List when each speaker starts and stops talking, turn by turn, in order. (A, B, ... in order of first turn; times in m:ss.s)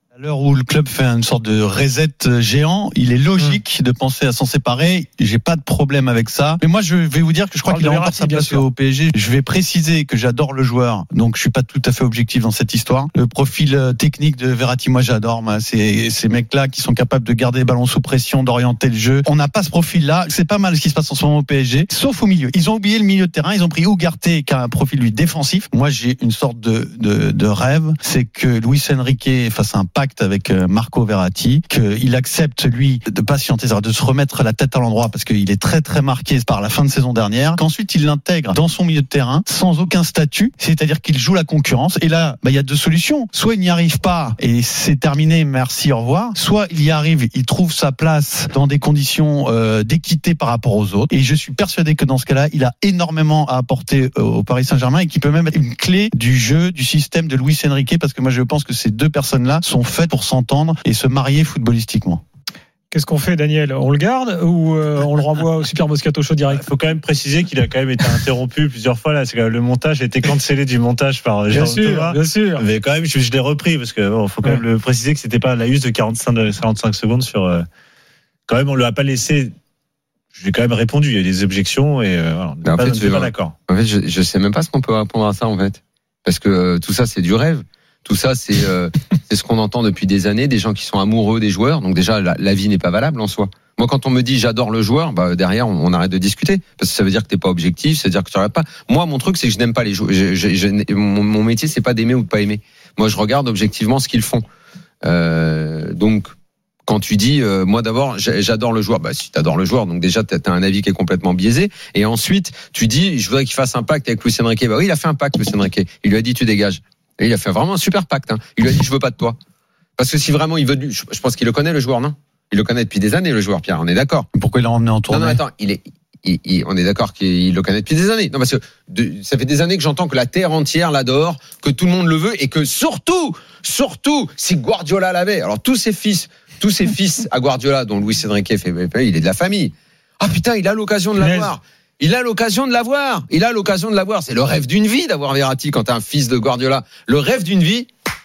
0:00.2-1:02.2 A
0:07.7-0:08.7 B
1:02.9-1:06.6 B
1:06.5-1:17.6 C
1:11.5-1:12.6 B
1:18.5-1:19.5 C
1:20.3-1:23.5 C
1:22.6-1:44.4 D
1:45.0-1:46.3 D
1:46.9-1:59.4 D
2:00.0-2:04.3 D
2:04.3-2:05.4 A
2:05.1-2:27.9 D
2:21.2-2:21.6 B